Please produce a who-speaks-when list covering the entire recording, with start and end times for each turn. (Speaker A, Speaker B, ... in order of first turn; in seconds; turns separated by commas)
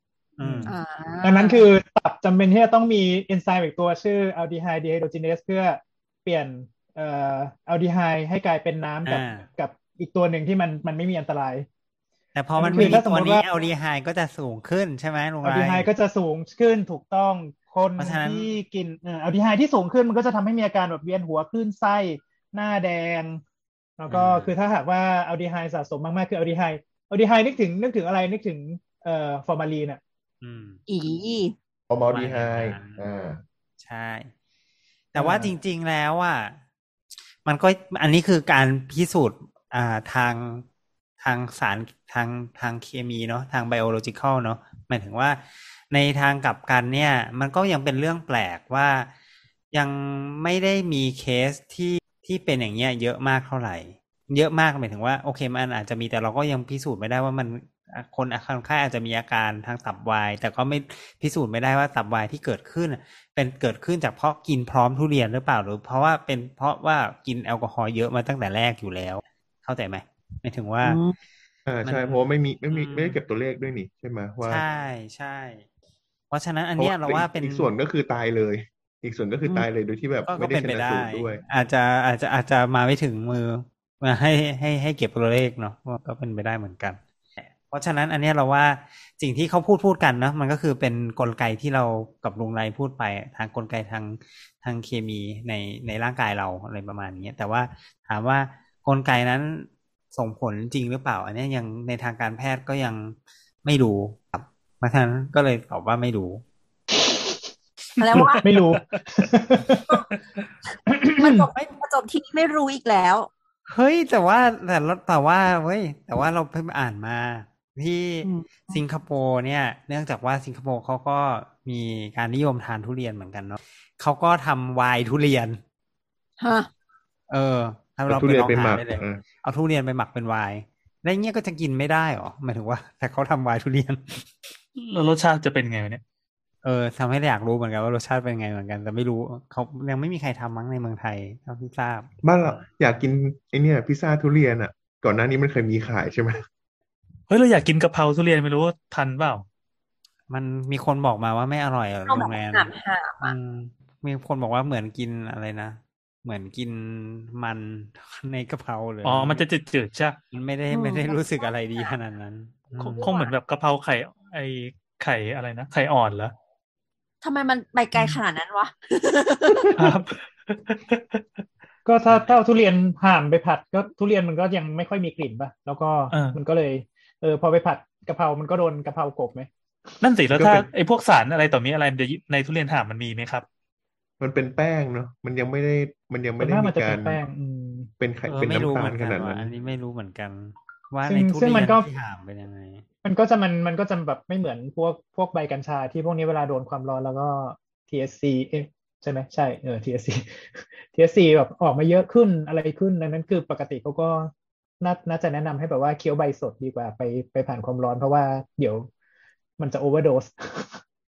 Speaker A: 0.4-0.8, Speaker B: 0.4-0.7, Speaker C: 0.7-1.7, Speaker B: 1.2-11.7, Speaker A: 9.1-9.5, Speaker A: 12.3-15.9, Speaker B: 12.6-13.5, Speaker B: 15.4-23.4, Speaker A: 18.0-18.5, Speaker B: 24.0-30.0, Speaker A: 24.1-24.5, Speaker A: 30.4-30.8, Speaker C: 30.9-31.6, Speaker D: 31.9-33.4, Speaker A: 32.1-33.1, Speaker A: 33.8-34.3, Speaker A: 35.1-36.6, Speaker D: 35.2-35.5, Speaker A: 37.5-40.6, Speaker A: 41.2-49.1, Speaker A: 49.7-71.0, Speaker C: 70.9-71.2, Speaker D: 71.7-74.6, Speaker A: 71.8-73.2, Speaker A: 74.4-75.6, Speaker A: 76.3-77.7, Speaker D: 76.8-81.4, Speaker A: 80.3-106.4, Speaker B: 107.0-107.5, Speaker C: 108.0-108.4, Speaker E: 108.0-108.8, Speaker B: 108.4-110.0, Speaker B: 110.9-111.5, Speaker C: 111.2-113.3, Speaker A: 113.7-125.6, Speaker C: 118.2-118.8, Speaker C: 126.4-126.7, Speaker A: 127.3-134.3, Speaker D: 128.1-129.2, Speaker E: 134.8-136.0, Speaker A: 136.6-142.7, Speaker D: 142.2-146.4, Speaker E: 147.3-149.5, Speaker A: 150.3-159.4, Speaker C: 152.1-153.3, Speaker E: 159.0-160.2, Speaker A: 160.3-163.1, Speaker C: 160.7-161.9, Speaker E: 162.8-166.3, Speaker C: 163.0-163.3, Speaker C: 167.2-169.7, Speaker E: 169.7-171.2, Speaker B: 171.8-180.1, Speaker A: 172.1-172.4, Speaker E: 176.1-176.4, Speaker E: 180.0-183.5, Speaker D: 180.3-180.7, Speaker D: 184.2-187.2, Speaker B: 186.4-187.9, Speaker D: 188.0-189.5, Speaker A: 188.2-192.8, Speaker B: 191.1-191.9, Speaker B: 193.1-208.9, Speaker B: 209.6-210.8